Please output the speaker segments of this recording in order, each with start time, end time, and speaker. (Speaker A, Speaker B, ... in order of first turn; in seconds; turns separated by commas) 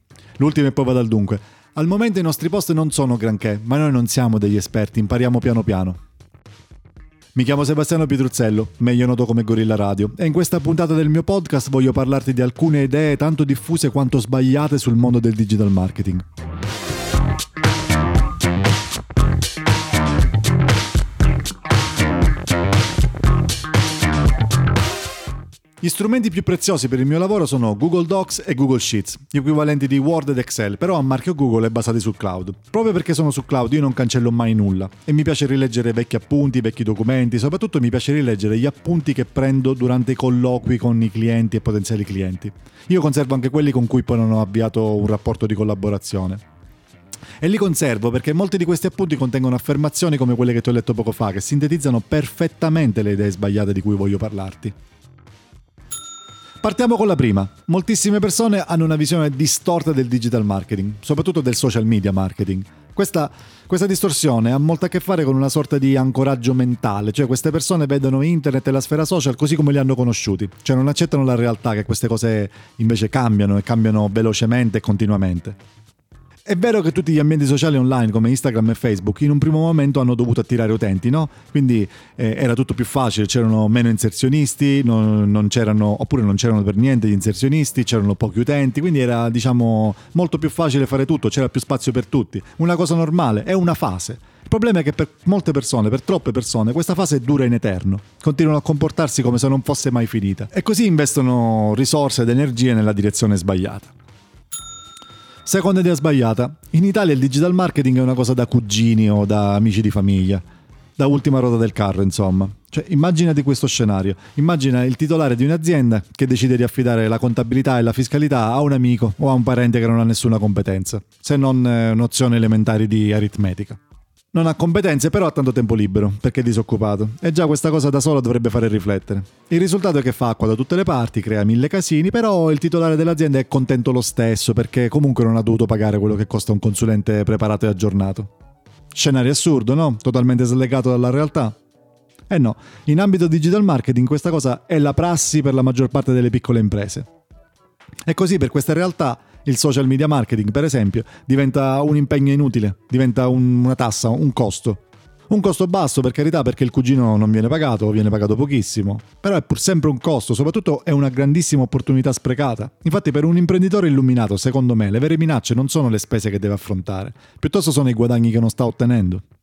Speaker A: 0.4-6.0, Speaker A: 7.3-16.2, Speaker A: 25.8-46.4, Speaker A: 47.4-54.8, Speaker A: 56.6-75.6, Speaker A: 76.5-103.9, Speaker A: 105.5-110.4, Speaker A: 111.0-123.8, Speaker A: 124.3-138.3, Speaker A: 138.9-141.6, Speaker A: 142.3-147.1, Speaker A: 148.1-169.2